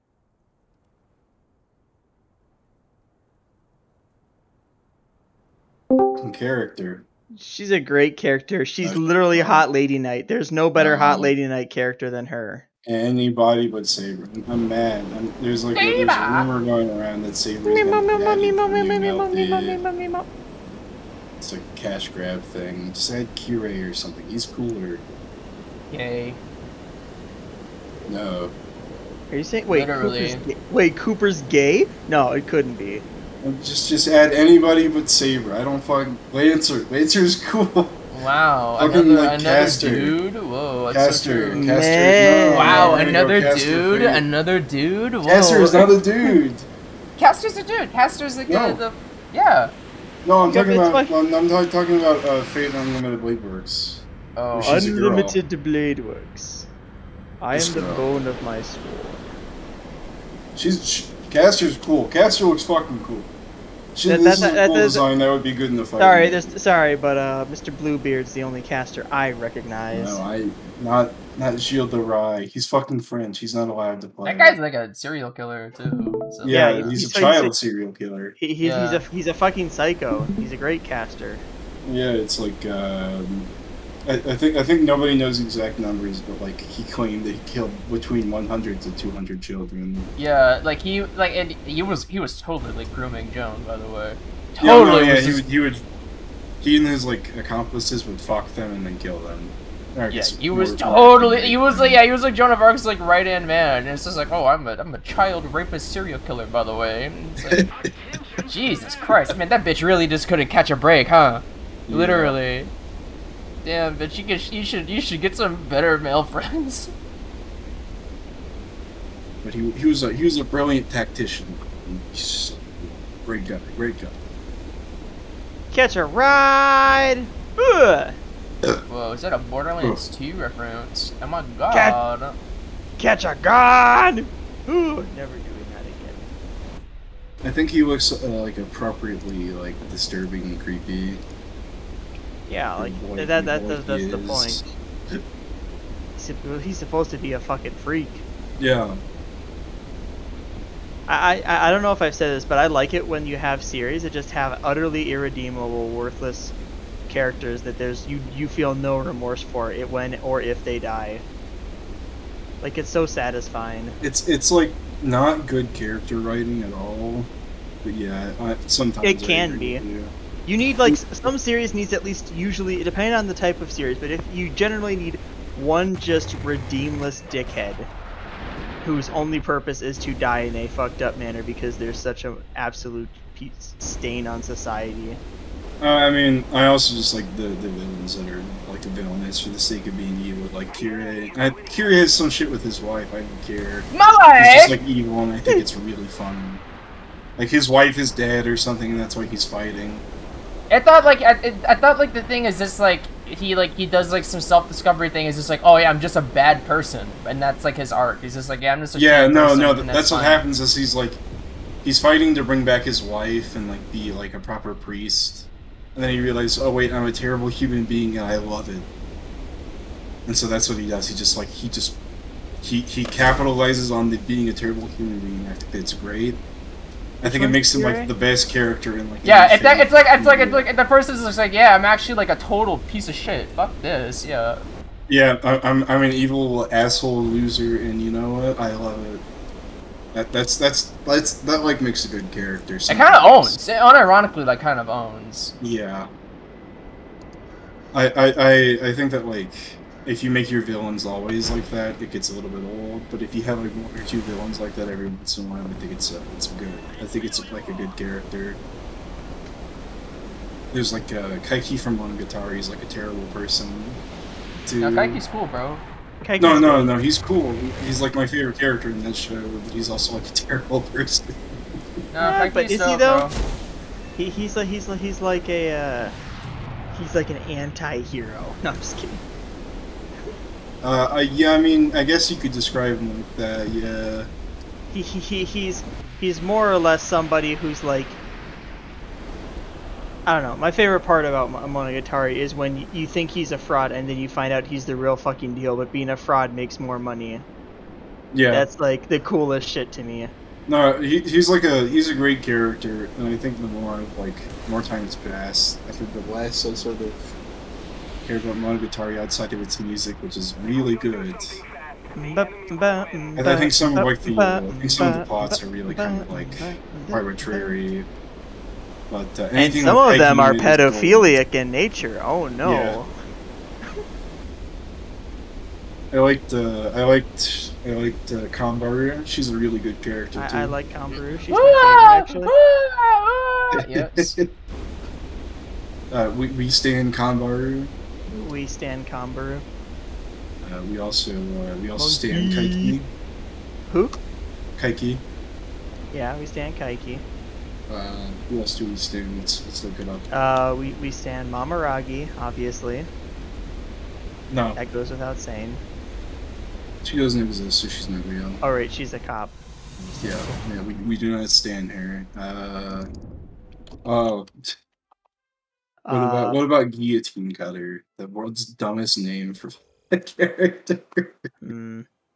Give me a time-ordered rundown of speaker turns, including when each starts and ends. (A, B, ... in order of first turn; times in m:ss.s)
0:06.2-0:07.0 A
0:07.4-0:12.7 B
0:08.8-0:09.7 A
0:10.8-0:11.3 A
0:12.8-0:19.8 A
0:15.8-0:16.5 C
0:17.6-0:20.3 C
0:21.4-0:25.0 A
0:25.9-0:26.4 C
0:28.1-0:28.6 A
0:29.3-0:33.0 B
0:29.7-0:30.4 C
0:33.4-0:38.0 A
0:38.1-0:41.7 C
0:38.8-0:40.2 A
0:40.9-0:44.2 A
0:41.5-0:43.0 B
0:42.5-0:45.9 C
0:45.2-0:46.7 A
0:47.2-0:49.7 C
0:48.5-0:48.8 A
0:50.2-0:55.4 A
0:50.5-0:51.1 B
0:54.4-0:54.8 C
0:54.6-0:56.7 B
0:57.4-0:59.2 B
0:57.5-0:58.1 A
1:00.6-1:03.3 A
1:04.0-1:06.6 A
1:04.0-1:05.0 B
1:06.0-1:10.2 B
1:09.9-1:14.6 A
1:14.2-1:17.3 C
1:16.4-1:18.4 A
1:16.5-1:17.6 B
1:18.4-1:21.5 B
1:18.6-1:19.0 C
1:21.8-1:23.5 A
1:24.1-1:30.1 A
1:30.2-1:35.4 C
1:34.6-1:35.8 A
1:36.6-1:42.0 A
1:40.1-1:47.6 C
1:47.5-1:47.9 A
1:48.5-1:52.7 C
1:51.9-1:52.4 A
1:53.6-1:56.9 C
1:59.4-2:04.2 A
2:05.7-2:08.2 B
2:08.9-2:12.4 C
2:11.7-2:12.0 B
2:13.0-2:16.3 B
2:17.4-2:21.2 A
2:22.5-2:24.6 B
2:22.8-2:25.2 A
2:26.2-2:28.2 B
2:28.6-2:29.0 A
2:31.1-2:36.5 B
2:37.1-2:41.2 B
2:42.6-2:44.0 B
2:44.0-2:47.3 A
2:47.8-2:50.1 A
2:49.0-2:49.8 B
2:50.5-2:57.9 B
2:50.8-2:51.1 A
2:58.8-3:05.2 B
3:05.8-3:16.6 A
3:13.9-3:14.8 C
3:17.4-3:20.1 A
3:20.7-3:30.4 C
3:28.9-3:31.2 A
3:31.8-3:38.9 A
3:40.3-3:42.0 A
3:42.6-3:46.4 A
3:47.2-3:50.7 A
3:47.2-3:48.1 B
3:49.2-3:54.6 C
3:55.1-3:59.2 A
4:00.1-4:03.6 A
4:02.9-4:05.6 C
4:05.6-4:06.1 A
4:07.9-4:18.6 A
4:20.7-4:24.0 A
4:24.6-4:25.2 A
4:24.8-4:25.8 C
4:26.2-4:26.9 B
4:26.4-4:31.3 A
4:32.1-4:33.4 C
4:32.2-4:33.3 B
4:34.2-4:36.2 B
4:36.9-4:39.2 B
4:40.8-4:44.3 A
4:44.9-4:48.2 B
4:50.3-4:57.5 B
4:58.3-4:58.7 A
4:58.5-5:00.3 B
5:00.7-5:07.4 A
5:08.2-5:11.6 A
5:12.2-5:17.7 B
5:13.4-5:18.1 A
5:19.1-5:21.4 A
5:19.6-5:23.1 B
5:22.6-5:23.0 A
5:26.1-5:30.7 A
5:30.4-5:32.5 B
5:31.5-5:34.3 C
5:33.9-5:34.5 A
5:36.1-5:37.9 A
5:38.3-5:39.6 B
5:40.6-5:43.1 A
5:42.0-5:43.0 B
5:43.9-5:44.2 B
5:44.8-5:45.2 A
5:46.1-5:47.2 B
5:47.9-5:50.3 A
5:50.3-5:53.1 B
5:54.5-5:54.8 A
5:54.8-5:55.8 B
5:57.0-5:58.6 A
5:58.6-5:59.6 B
6:00.2-6:00.6 B
6:00.2-6:03.1 A
6:04.0-6:04.8 A
6:06.0-6:06.6 B
6:06.1-6:11.3 A
6:11.6-6:12.1 B